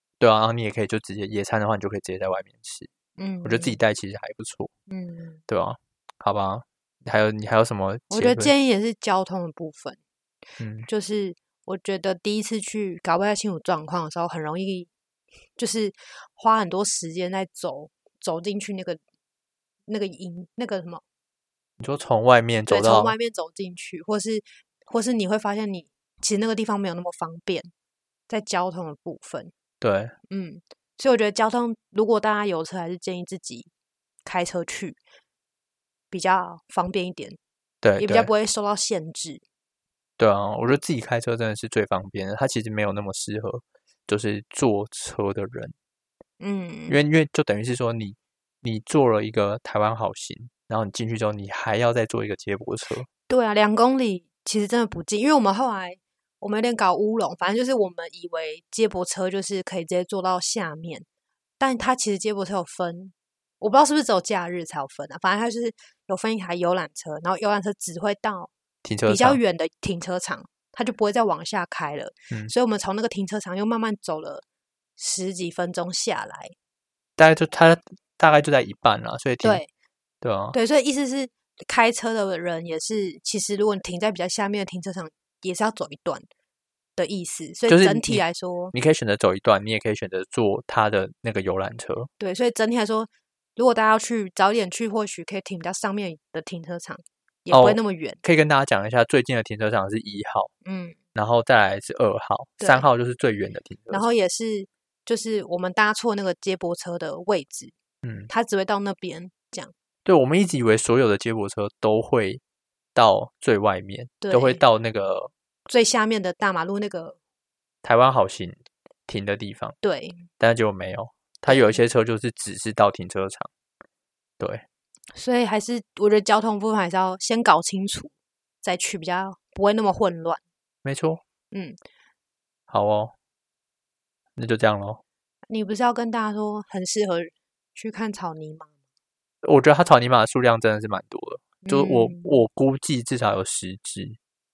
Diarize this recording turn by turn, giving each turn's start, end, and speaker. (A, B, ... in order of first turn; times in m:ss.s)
0:00.2-0:02.9 A
0:03.2-0:03.8 B
0:03.4-0:04.7 A
0:04.9-0:05.4 B
0:05.5-0:08.5 A
0:08.1-0:10.0 B
0:10.6-0:10.9 A
0:10.9-0:14.9 B
0:15.6-0:19.0 B
0:19.9-0:21.0 B
0:21.8-0:23.2 A
0:22.7-0:27.7 B
0:28.3-0:29.5 B
0:29.8-0:30.1 A
0:30.3-0:33.7 B
0:34.2-0:35.0 B
0:36.1-0:37.4 B
0:37.8-0:38.3 A
0:38.0-0:39.4 B
0:40.2-0:45.8 A
0:46.4-0:47.0 B
0:46.9-0:53.1 A
0:53.3-1:01.1 B
1:01.6-1:08.5 B
1:08.8-1:09.4 A
1:09.1-1:14.4 B
1:15.0-1:16.6 B
1:17.2-1:19.6 A
1:19.4-1:19.7 B
1:20.2-1:20.6 A
1:20.5-1:26.2 B
1:27.0-1:28.7 B
1:27.7-1:32.1 A
1:32.2-1:38.2 B
1:37.5-1:40.5 A
1:40.6-1:41.0 B
1:41.2-1:44.1 A
1:42.6-1:42.8 B
1:43.9-1:47.7 B
1:48.0-1:48.3 A
1:48.3-1:49.7 B
1:50.0-1:52.4 A
1:53.0-1:55.3 A
1:54.2-1:54.6 B
1:55.7-1:57.2 B
1:57.8-1:59.8 A
1:59.8-2:00.3 B
2:00.4-2:03.5 A
2:01.5-2:01.8 B
2:05.1-2:10.4 B
2:10.8-2:11.2 A
2:11.5-2:11.8 B
2:12.7-2:13.1 A
2:14.4-2:15.0 A
2:15.5-2:18.7 B
2:19.4-2:24.2 A
2:21.6-2:22.4 B